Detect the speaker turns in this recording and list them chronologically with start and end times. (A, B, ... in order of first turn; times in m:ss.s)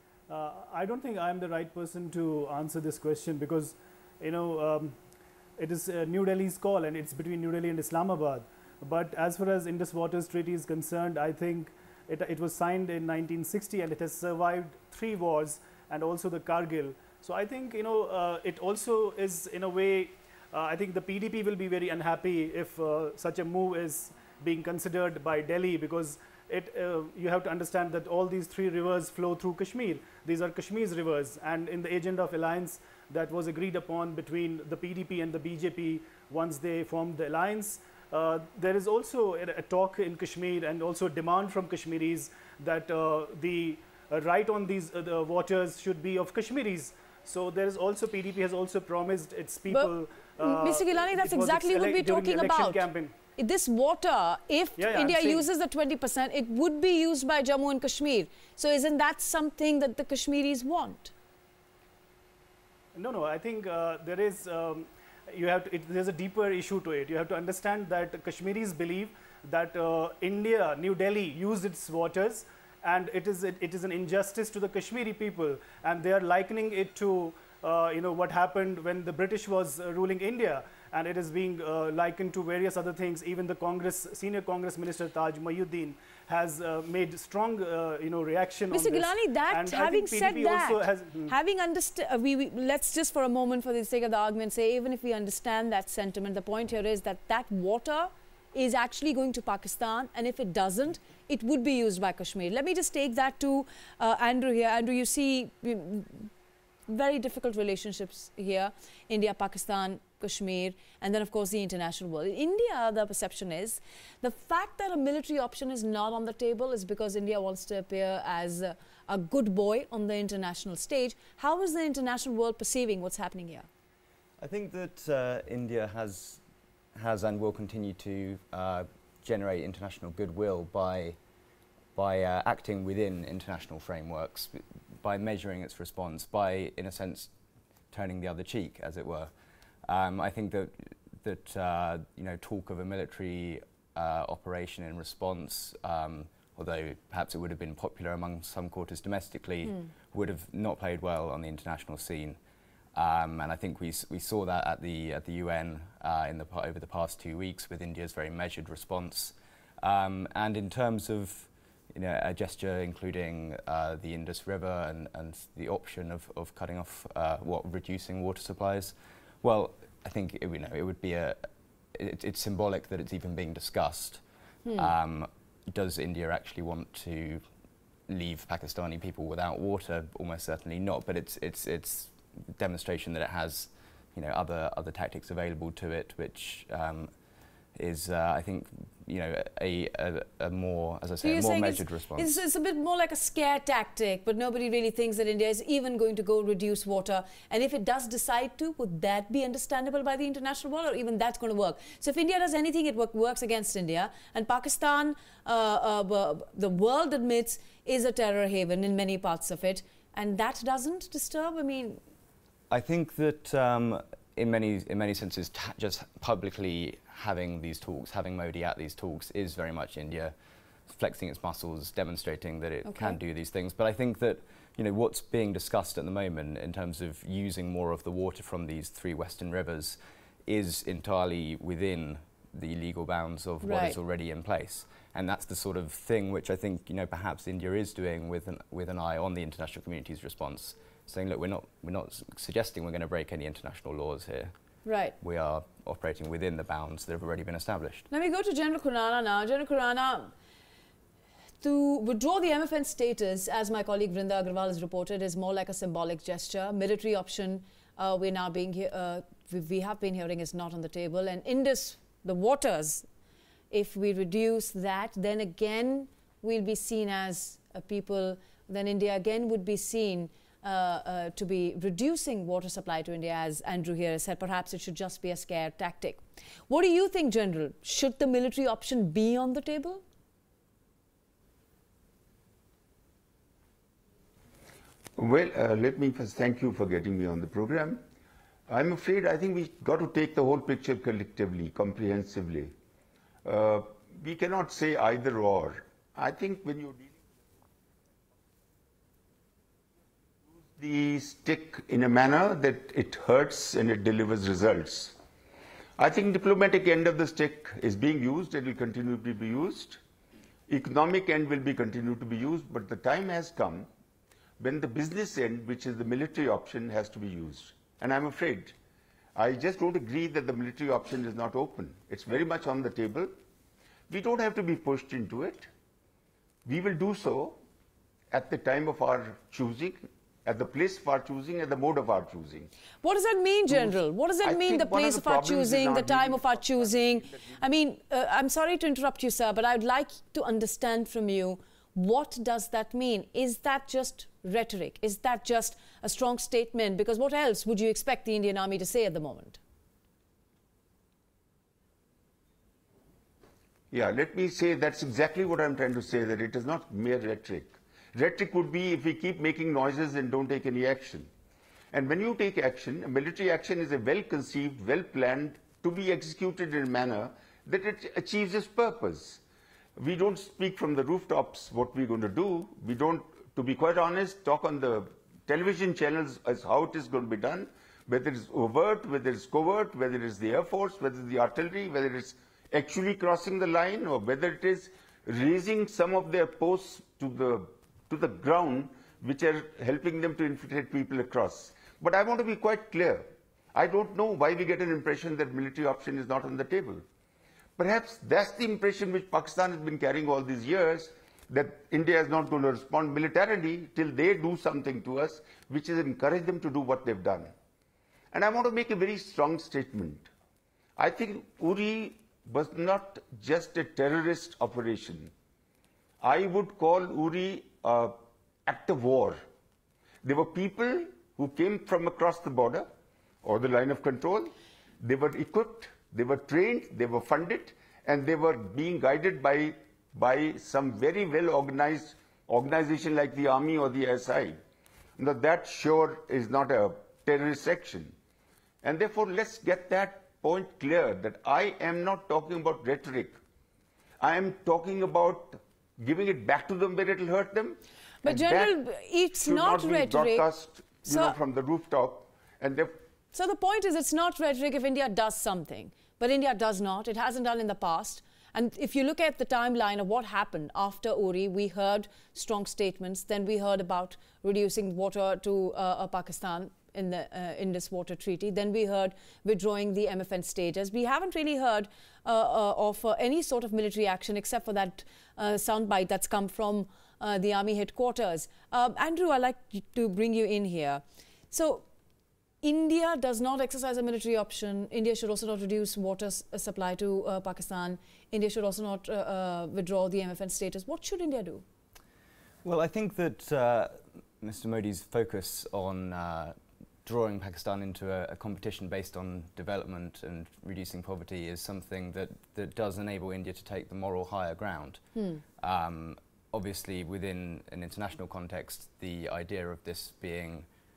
0:00.3-0:05.0 A
0:05.6-0:53.1 A
0:49.7-1:01.1 B
0:54.8-0:55.5 A
1:02.9-1:31.3 A
1:28.7-1:46.3 B
1:46.9-2:03.7 B
2:04.4-2:06.4 C
2:06.9-2:11.2 C
2:11.9-2:17.3 C
2:17.9-2:19.3 C
2:19.8-2:32.4 C
2:32.9-2:54.2 C
2:54.6-2:54.9 B
2:54.7-2:57.4 C
2:58.1-3:07.1 C
3:07.7-3:12.4 C
3:11.2-3:32.0 B
3:32.7-3:40.3 C
3:40.9-4:04.5 C
3:42.8-3:43.2 B
3:53.6-3:54.0 B
4:04.8-4:05.1 B
4:05.2-4:08.1 C
4:08.1-4:10.3 B
4:11.6-4:23.1 B
4:23.7-4:40.0 B
4:45.2-4:48.0 D
4:48.7-4:52.7 D
4:53.4-4:57.1 D
5:00.8-5:05.2 D
5:06.0-5:10.0 D
5:10.7-5:13.9 D
5:14.6-5:18.7 D
5:19.4-5:23.3 D
5:24.1-5:25.7 D
5:26.6-5:27.6 D
5:28.3-5:32.7 D
5:33.0-5:49.6 B
5:34.4-5:37.4 D
5:53.9-6:01.3 D
6:01.9-6:09.4 D
6:10.0-6:37.0 D
6:37.8-6:47.5 D
6:48.3-6:50.3 D
6:51.0-6:55.3 D
6:56.2-6:59.4 D
7:00.2-7:02.9 D
7:03.4-7:14.6 D
7:15.2-7:18.1 D
7:18.8-7:23.4 D
7:24.2-7:28.8 D
7:28.2-7:30.4 B
7:29.4-7:33.0 D
7:31.0-7:31.3 B
7:33.3-8:01.8 B
8:02.6-8:11.6 B
8:12.6-8:25.0 C
8:25.2-8:25.4 B
8:25.6-8:30.6 C